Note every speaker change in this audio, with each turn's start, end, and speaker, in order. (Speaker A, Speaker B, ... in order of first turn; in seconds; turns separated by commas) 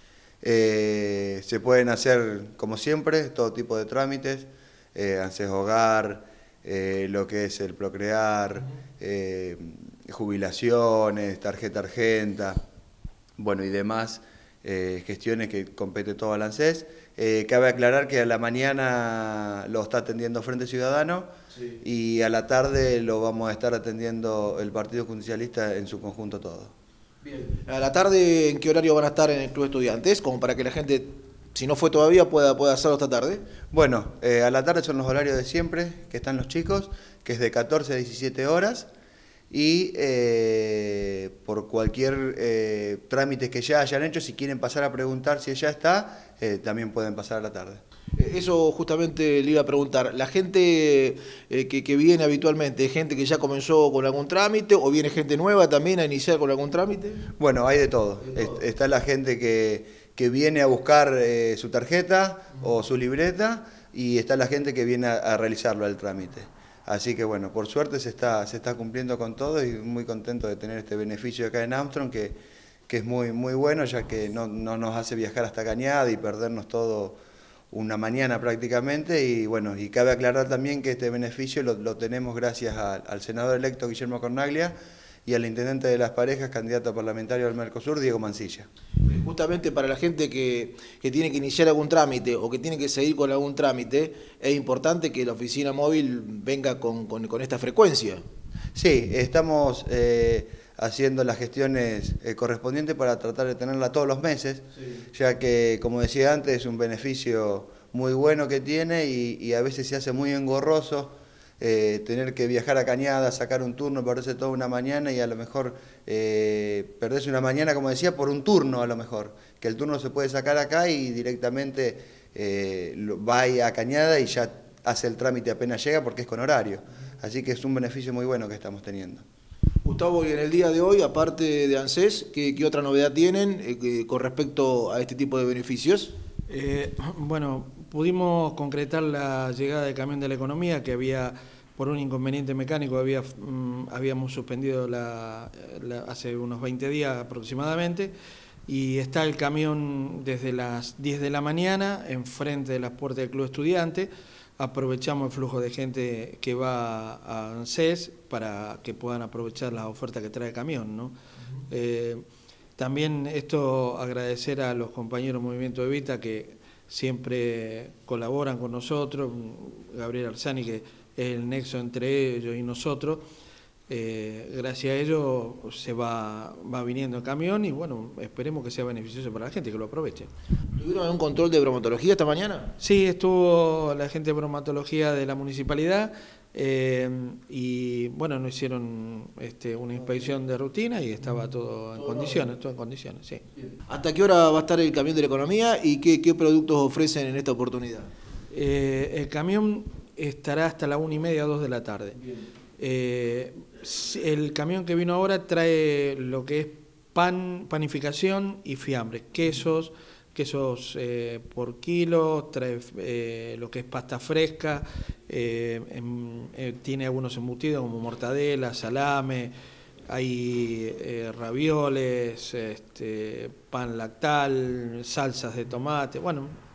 Speaker A: 0.4-12.6, Speaker A: 13.4-21.3, Speaker A: 21.8-26.7, Speaker B: 27.2-33.4, Speaker A: 33.7-38.9, Speaker A: 39.5-47.8, Speaker B: 48.2-57.3, Speaker A: 57.4-77.2, Speaker A: 77.7-88.7, Speaker B: 89.0-98.2, Speaker A: 98.7-129.2, Speaker B: 129.8-136.1, Speaker C: 136.5-148.1, Speaker C: 148.7-161.1, Speaker C: 161.7-162.2, Speaker C: 162.8-173.2, Speaker C: 173.9-180.3, Speaker B: 180.8-182.7, Speaker C: 182.8-193.4, Speaker B: 193.9-198.1, Speaker C: 198.5-202.2, Speaker C: 202.8-219.5, Speaker C: 220.1-226.6